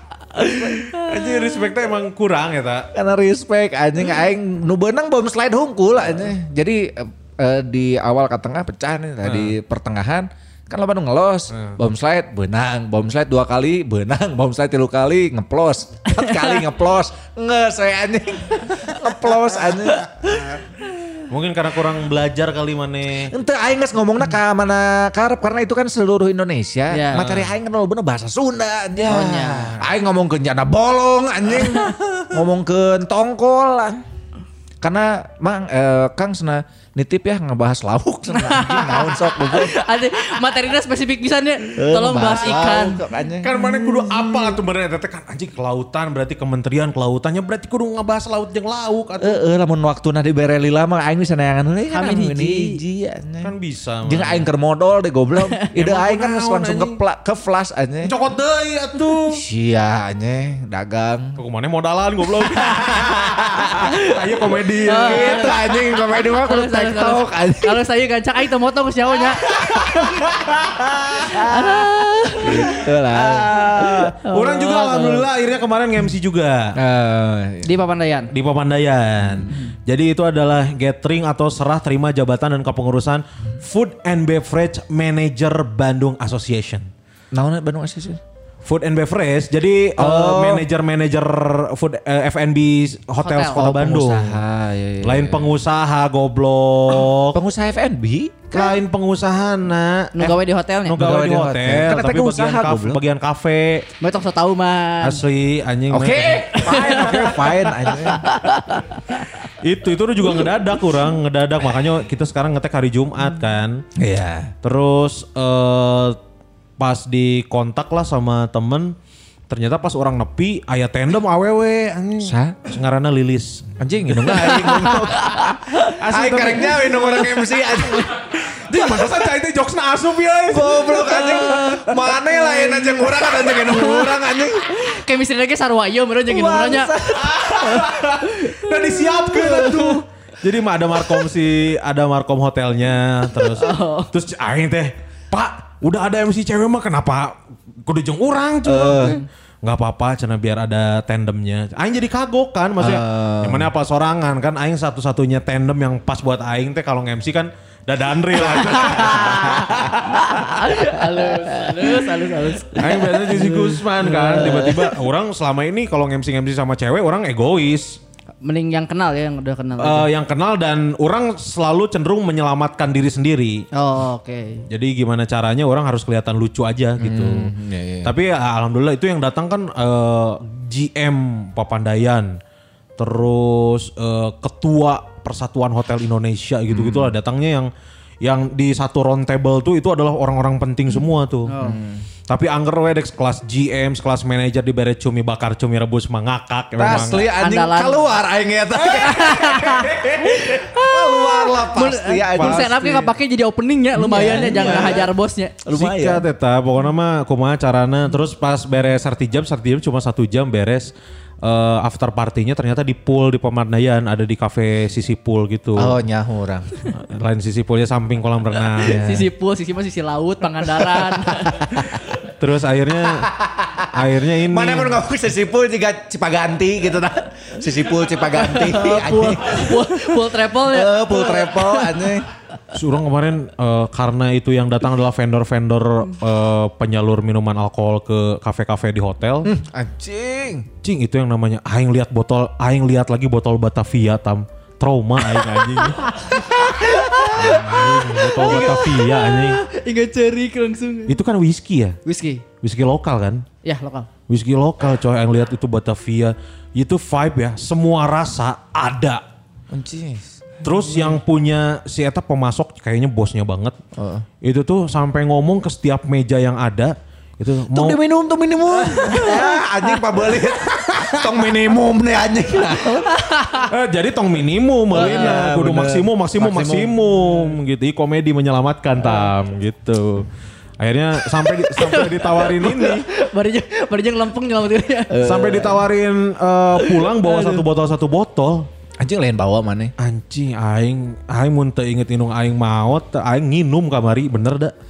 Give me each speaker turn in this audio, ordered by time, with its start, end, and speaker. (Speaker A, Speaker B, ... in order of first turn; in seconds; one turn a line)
Speaker A: 0.4-0.8
Speaker B: 0.7-2.9
Speaker C: 0.8-1.1
Speaker A: 2.9-20.6
Speaker B: 9.2-9.6
Speaker B: 11.5-11.8
Speaker C: 16.2-16.6
Speaker B: 21.3-23.3
Speaker A: 23.3-34.0
Speaker C: 26.9-27.3
Speaker B: 27.2-27.5
Speaker C: 29.0-29.8
Speaker A: 34.8-39.8
Speaker C: 38.3-43.0
Speaker A: 41.8-44.5
Speaker B: 43.4-49.4
Speaker A: 49.2-53.5
Speaker C: 51.9-52.8
Speaker B: 53.4-54.5
Speaker A: 54.1-58.1
Speaker B: 55.7-57.0
Speaker B: 58.0-59.4
Speaker A: 59.3-61.4
Speaker B: 61.4-65.6
Speaker A: 63.0-63.8
Speaker C: 63.8-64.2
Speaker C: 64.9-70.0
Speaker A: 65.0-67.8
Speaker B: 69.5-71.8
Speaker C: 71.2-72.6
Speaker A: 72.4-74.0
Speaker B: 72.7-76.8
Speaker C: 74.2-75.3
Speaker A: 76.8-77.7
Speaker C: 77.6-78.3
Speaker B: 78.3-86.9
Speaker A: 87.3-88.2
Speaker B: 88.7-94.4
Speaker A: 90.0-90.7
Speaker C: 93.2-93.6
Speaker A: 93.5-95.5
Speaker B: 95.0-97.4
Speaker A: 97.3-98.8
Speaker B: 98.5-103.9
Speaker C: 100.2-101.0
Speaker A: 100.9-103.0
Speaker C: 104.0-105.2
Speaker B: 105.0-107.6
Speaker A: 105.9-108.3
Speaker C: 106.5-109.2
Speaker B: 109.6-113.9
Speaker A: 114.0-114.5
Speaker B: 114.6-116.2
Speaker B: 116.8-119.0
Speaker B: 119.5-125.2
Speaker A: 122.2-122.7
Speaker A: 123.8-128.1
Speaker C: 124.5-125.6
Speaker B: 125.8-127.5
Speaker B: 128.1-132.0
Speaker A: 128.7-129.1
Speaker A: 130.5-134.7
Speaker C: 131.2-131.7
Speaker C: 132.5-134.1
Speaker C: 134.7-136.9
Speaker A: 136.3-138.1
Speaker B: 137.2-160.8
Speaker A: 139.3-140.0
Speaker C: 143.5-144.1
Speaker A: 148.6-149.2
Speaker A: 152.8-153.7
Speaker C: 158.6-164.8
Speaker A: 161.6-162.1
Speaker B: 162.8-168.0
Speaker A: 164.2-164.8
Speaker C: 168.4-170.1
Speaker B: 169.8-173.7
Speaker C: 173.7-174.7
Speaker B: 174.7-177.5
Speaker A: 177.0-178.1
Speaker B: 178.0-182.4
Speaker B: 183.0-187.7
Speaker A: 186.7-187.2
Speaker B: 188.2-191.5
Speaker C: 191.5-191.8
Speaker A: 191.6-192.1
Speaker B: 192.3-197.3
Speaker A: 196.8-203.1
Speaker C: 197.0-198.0
Speaker C: 198.8-205.6
Speaker B: 202.3-202.7
Speaker A: 203.9-205.1
Speaker B: 204.3-205.1
Speaker A: 205.6-206.3
Speaker B: 205.7-216.0
Speaker A: 215.8-216.8
Speaker B: 216.9-219.2
Speaker A: 218.8-219.3
Speaker C: 218.8-221.7
Speaker A: 220.8-222.1
Speaker B: 222.2-223.3
Speaker A: 223.0-232.3
Speaker B: 223.9-225.0
Speaker C: 228.3-232.0
Speaker B: 232.7-239.5
Speaker A: 239.4-240.7
Speaker B: 240.8-246.1
Speaker C: 246.0-251.2
Speaker A: 247.0-247.5
Speaker B: 247.3-249.6
Speaker B: 251.1-252.0
Speaker C: 252.1-252.4
Speaker B: 252.6-253.4
Speaker C: 253.6-254.1
Speaker B: 254.3-259.2
Speaker A: 259.7-260.4
Speaker B: 260.6-263.8
Speaker A: 264.0-264.3
Speaker B: 264.4-268.0
Speaker A: 267.7-273.1
Speaker B: 268.7-269.6
Speaker B: 270.9-271.5
Speaker C: 273.1-273.7
Speaker B: 273.6-280.3
Speaker A: 274.9-277.0
Speaker C: 275.0-275.4
Speaker B: 280.8-283.1
Speaker C: 281.4-285.2
Speaker A: 285.1-285.9
Speaker B: 285.2-288.7
Speaker C: 286.8-287.6
Speaker A: 289.0-289.9
Speaker B: 290.0-294.7